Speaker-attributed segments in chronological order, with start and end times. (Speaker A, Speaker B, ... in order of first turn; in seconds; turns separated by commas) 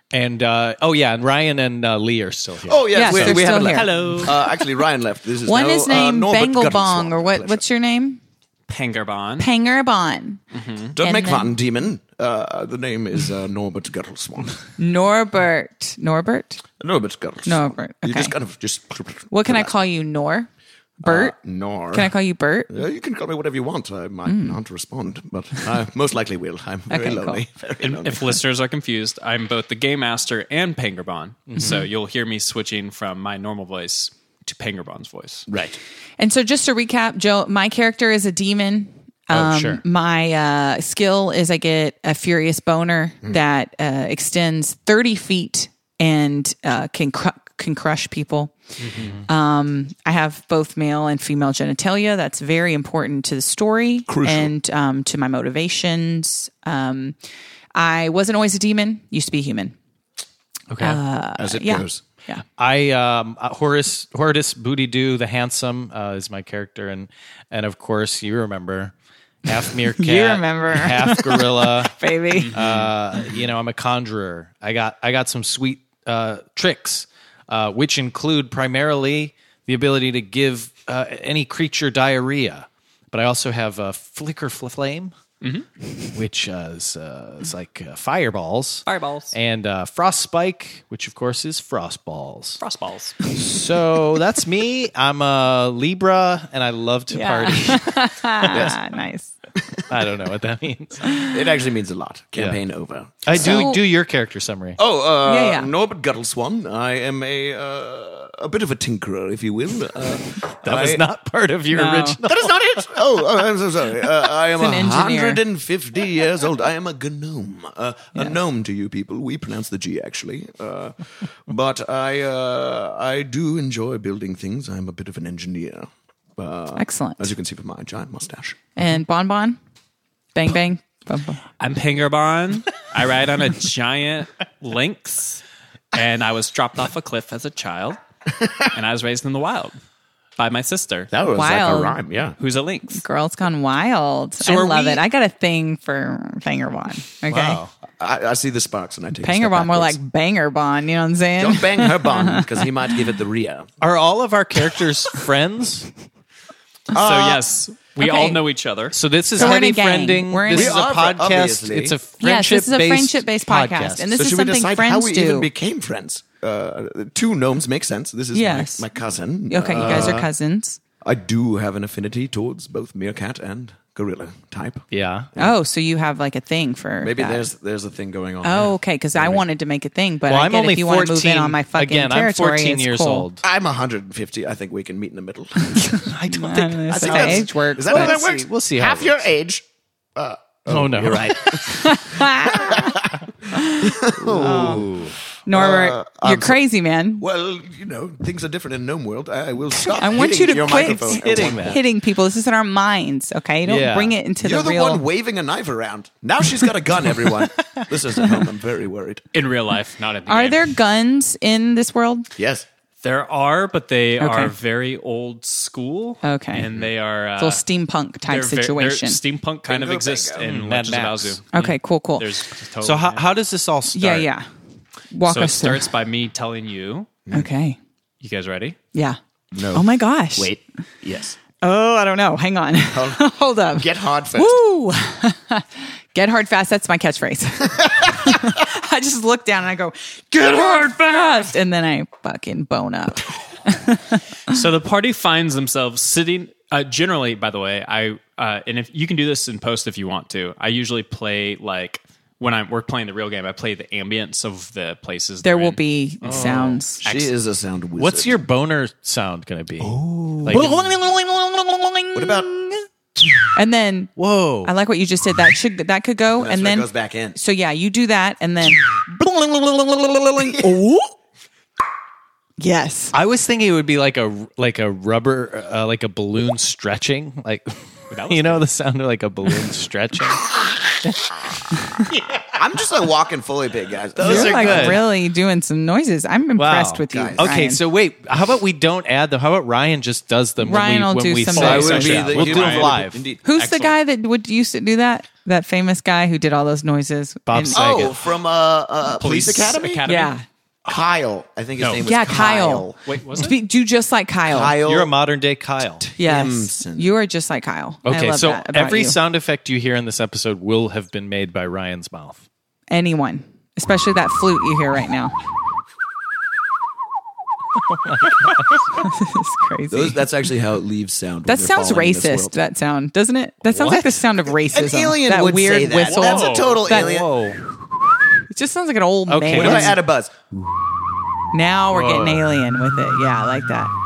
Speaker A: 0.1-3.6, Speaker B: 2.6-7.6, Speaker C: 2.9-4.7, Speaker D: 3.7-4.4, Speaker C: 5.5-8.2, Speaker D: 8.7-9.5, Speaker C: 9.4-10.4, Speaker D: 10.5-10.9, Speaker B: 10.9-14.6, Speaker C: 11.0-11.6, Speaker C: 14.8-16.6, Speaker B: 16.8-19.7, Speaker C: 17.4-18.4, Speaker C: 19.3-20.5, Speaker C: 21.0-21.4, Speaker B: 21.0-22.1, Speaker C: 21.9-22.9, Speaker B: 22.7-28.4, Speaker C: 24.3-24.6, Speaker C: 26.9-27.4, Speaker D: 27.8-35.5, Speaker A: 31.5-31.9, Speaker B: 35.5-35.8, Speaker C: 36.2-48.6, Speaker A: 39.3-39.8, Speaker D: 48.8-49.1, Speaker C: 49.3-57.2, Speaker B: 54.1-54.5, Speaker C: 57.8-59.8, Speaker A: 60.7-61.0, Speaker C: 60.8-62.4, Speaker B: 61.4-62.0, Speaker A: 62.6-68.9, Speaker A: 69.5-85.2, Speaker C: 69.8-72.5, Speaker D: 72.3-72.7, Speaker D: 85.4-85.7, Speaker A: 86.1-92.6, Speaker D: 88.9-89.3, Speaker D: 92.6-93.2, Speaker A: 93.3-98.8, Speaker C: 97.1-99.3, Speaker A: 99.9-101.2, Speaker B: 101.1-103.6, Speaker A: 103.2-104.8, Speaker C: 103.3-103.8, Speaker B: 104.8-111.0, Speaker C: 105.2-105.7, Speaker A: 110.6-112.7, Speaker C: 111.7-112.2, Speaker B: 112.3-128.6, Speaker C: 114.6-115.4, Speaker C: 126.8-127.3, Speaker C: 128.8-129.6, Speaker C: 130.3-131.4, Speaker D: 131.6-138.0, Speaker D: 138.7-139.7, Speaker D: 140.4-141.1, Speaker B: 141.1-142.4, Speaker C: 141.3-142.0, Speaker D: 142.4-143.0, Speaker C: 142.9-147.6, Speaker A: 144.4-145.0, Speaker A: 147.3-147.7, Speaker B: 148.0-150.0, Speaker C: 149.2-152.6, Speaker B: 151.4-153.7, Speaker A: 153.8-155.9, Speaker B: 156.9-157.4, Speaker D: 156.9-159.0, Speaker C: 158.0-158.4, Speaker A: 158.9-164.2, Speaker C: 159.3-160.8, Speaker B: 160.5-162.0, Speaker C: 162.2-165.5, Speaker B: 164.1-170.3, Speaker C: 168.3-168.9, Speaker C: 169.5-170.8, Speaker A: 169.7-170.2, Speaker B: 171.0-175.5, Speaker A: 174.9-175.3, Speaker C: 175.4-177.4, Speaker B: 177.0-179.4, Speaker C: 178.4-183.3, Speaker A: 180.3-183.4, Speaker B: 183.4-186.0, Speaker C: 186.0-188.2, Speaker A: 186.1-189.2, Speaker B: 186.9-189.7, Speaker B: 190.2-196.6, Speaker A: 190.7-191.8, Speaker C: 191.5-193.0, Speaker C: 193.5-194.9, Speaker A: 194.2-195.2, Speaker C: 195.5-197.2, Speaker B: 197.2-201.8, Speaker C: 199.9-205.0, Speaker A: 200.9-201.8, Speaker A: 203.7-204.2, Speaker B: 204.4-209.2, Speaker D: 209.3-210.7, Speaker C: 210.3-212.3, Speaker B: 212.4-212.7, Speaker D: 213.0-217.6, Speaker C: 214.2-214.5, Speaker C: 216.2-216.7, Speaker C: 217.4-219.2, Speaker D: 218.3-223.2, Speaker B: 219.7-220.4, Speaker A: 220.4-221.4, Speaker C: 221.5-222.3, Speaker A: 222.8-224.3, Speaker C: 223.9-224.5, Speaker C: 225.1-225.9, Speaker D: 225.2-227.1, Speaker C: 227.3-227.8, Speaker D: 228.2-228.8, Speaker C: 228.9-229.2, Speaker B: 229.5-231.4, Speaker C: 229.7-230.5, Speaker C: 231.6-244.6, Speaker B: 232.9-233.2, Speaker B: 233.8-234.6, Speaker B: 240.4-241.1, Speaker D: 244.5-255.8, Speaker C: 255.4-257.0, Speaker A: 256.2-256.8, Speaker D: 257.0-257.3, Speaker B: 257.0-258.4, Speaker A: 258.0-260.8, Speaker D: 259.8-260.6, Speaker C: 260.4-262.7, Speaker B: 262.1-262.6, Speaker C: 263.5-271.1, Speaker A: 264.2-264.7, Speaker B: 266.4-267.4, Speaker C: 272.6-273.1, Speaker A: 273.1-280.5, Speaker D: 278.1-278.7, Speaker A: 281.0-281.3, Speaker C: 281.8-282.1, Speaker B: 282.5-285.1, Speaker A: 284.2-285.1, Speaker C: 284.2-287.8, Speaker A: 286.6-293.3, Speaker B: 287.1-287.5, Speaker C: 290.6-292.2, Speaker D: 291.5-293.9, Speaker B: 291.6-293.4, Speaker C: 293.4-298.1, Speaker A: 297.5-298.3, Speaker B: 297.7-300.0, Speaker D: 299.1-300.3, Speaker C: 300.1-300.4, Speaker B: 300.9-303.0, Speaker D: 301.8-302.1, Speaker C: 302.0-304.8, Speaker D: 303.1-303.6, Speaker B: 304.5-305.1, Speaker A: 304.8-306.1, Speaker B: 306.2-307.1, Speaker C: 306.2-309.2, Speaker A: 308.1-312.4, Speaker C: 312.9-315.4, Speaker C: 319.0-320.2, Speaker B: 319.9-322.6, Speaker C: 321.5-327.2, Speaker B: 323.8-327.4, Speaker D: 326.1-326.8, Speaker A: 326.8-327.6, Speaker C: 328.5-330.0, Speaker A: 329.3-330.0, Speaker B: 329.5-330.4, Speaker C: 331.5-333.9, Speaker A: 331.9-332.6